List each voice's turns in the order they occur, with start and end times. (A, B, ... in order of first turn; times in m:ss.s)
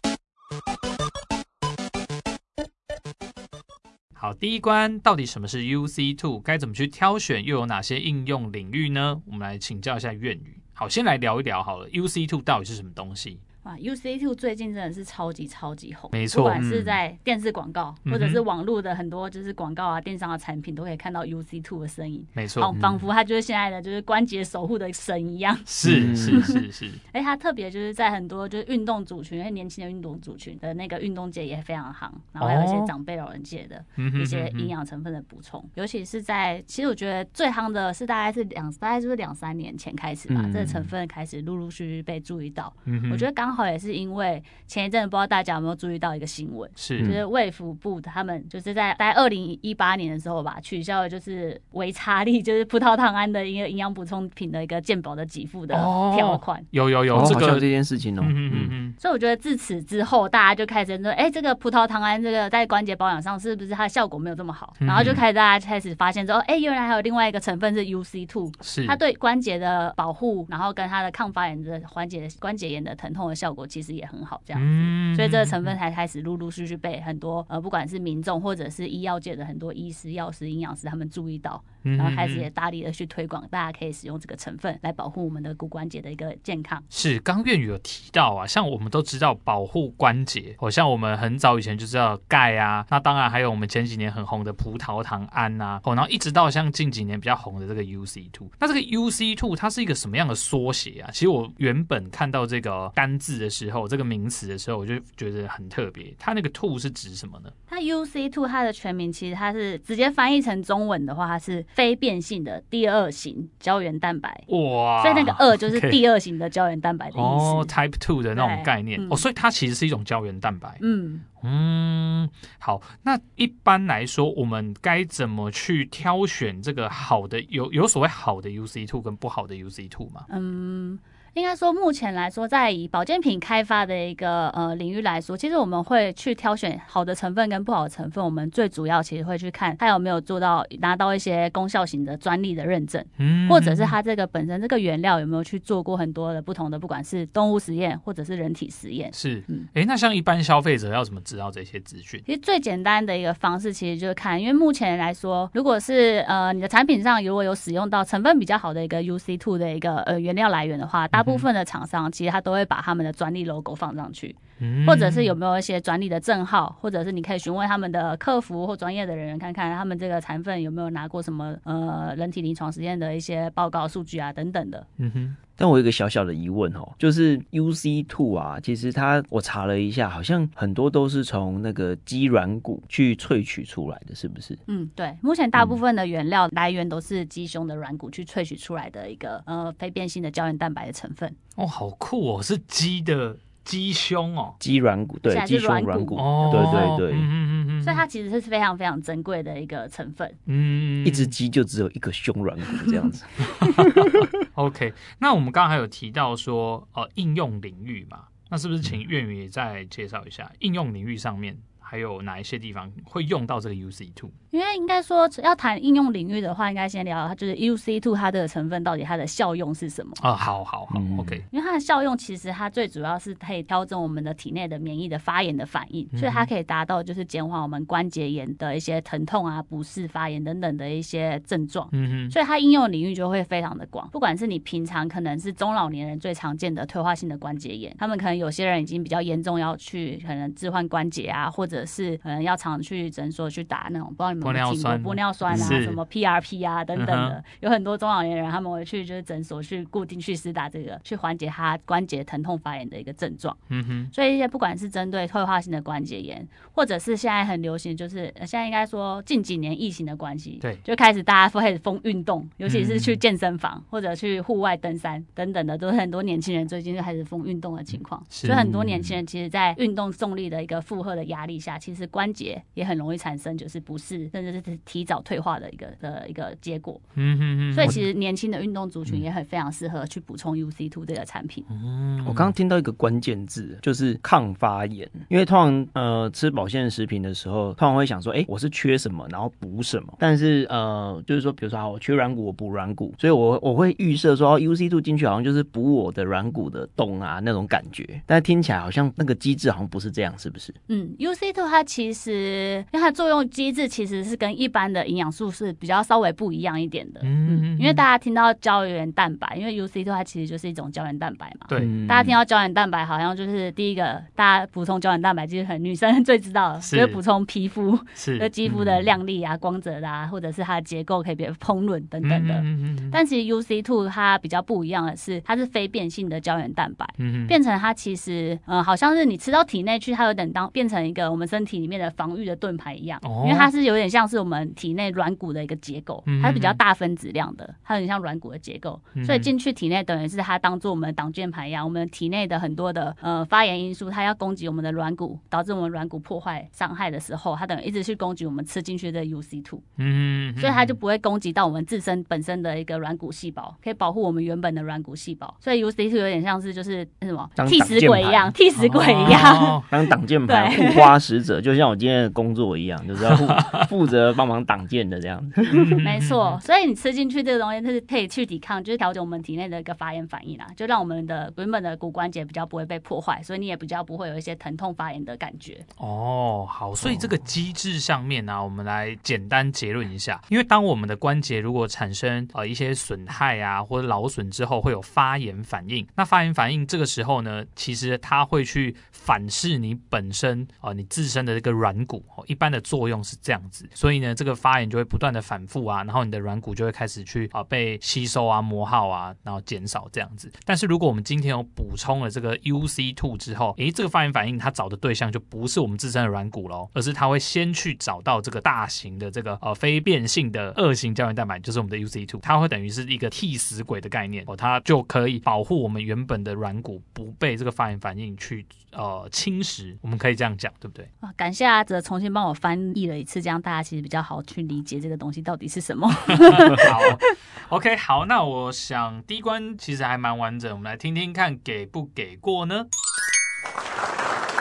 0:04.2-0:13.4 A
0:13.6-0:25.7 B
0:16.1-0:16.7 A
0:16.6-0:16.9 C
0:18.0-0:18.4 A
0:22.4-0:22.7 A
0:22.7-0:23.0 C
0:25.7-0:27.0 A
0:25.8-0:26.5 C
0:27.1-0:56.6 B
0:32.4-0:32.9 A
0:34.0-0:34.7 A
0:40.3-0:40.9 C
0:42.8-0:43.2 A
0:46.8-0:47.1 A
0:55.7-0:57.7 A
0:57.1-0:58.7 C
0:58.2-0:58.9 A
0:59.0-1:26.8 B
1:04.8-1:05.2 A
1:08.6-1:09.0 A
1:14.5-1:15.7 A
1:21.8-1:22.5 A
1:26.9-1:47.5 A
1:47.7-1:54.4 B
1:54.5-1:56.0 A
1:55.0-1:57.7 B
1:57.1-2:00.8 A
1:58.3-1:59.2 B
2:00.8-2:01.2 B
2:01.4-2:10.3 A
2:10.3-2:29.7 B
2:23.2-2:24.0 A
2:29.1-2:32.2 A
2:32.2-2:54.8 B
2:41.1-2:41.5 A
2:44.6-2:45.3 A
2:55.0-2:55.4 A
2:55.6-3:04.6 C
3:04.7-3:11.4 B
3:11.6-3:14.6 A
3:14.6-3:17.3 C
3:15.3-3:16.9 B
3:16.2-3:18.0 A
3:17.8-3:20.4 B
3:20.5-3:21.3 A
3:21.0-3:24.3 C
3:23.5-3:34.3 A
3:34.5-3:40.2 B
3:40.2-3:41.4 A
3:40.9-3:41.4 C
3:41.5-4:13.6 B
3:46.1-3:46.5 A
3:51.9-3:52.3 A
4:04.4-4:06.0 A
4:05.5-4:05.8 C
4:07.0-4:07.4 A
4:13.7-4:14.1 A
4:14.1-4:37.0 B
4:22.7-4:23.2 A
4:28.3-4:28.6 A
4:28.5-4:29.2 C
4:37.2-4:38.0 A
4:37.7-4:41.6 B
4:41.7-4:42.5 A
4:42.2-5:00.7 C
5:00.9-5:49.8 B
5:07.2-5:08.0 A
5:11.8-5:12.4 C
5:16.8-5:17.2 A
5:18.2-5:19.1 A
5:22.2-5:23.2 A
5:27.2-5:27.6 A
5:33.2-5:33.7 A
5:36.2-5:36.8 A
5:39.2-5:39.5 A
5:50.0-5:50.9 A
5:50.6-5:59.9 B
5:57.6-5:58.5 C
5:58.8-5:59.8 A
5:59.2-6:06.0 C
6:00.4-6:01.1 B
6:03.5-6:03.8 A
6:05.7-6:06.6 A
6:06.0-6:15.8 B
6:16.0-7:01.1 A
6:17.0-6:17.3 C
7:01.2-7:07.1 B
7:06.3-7:12.9 A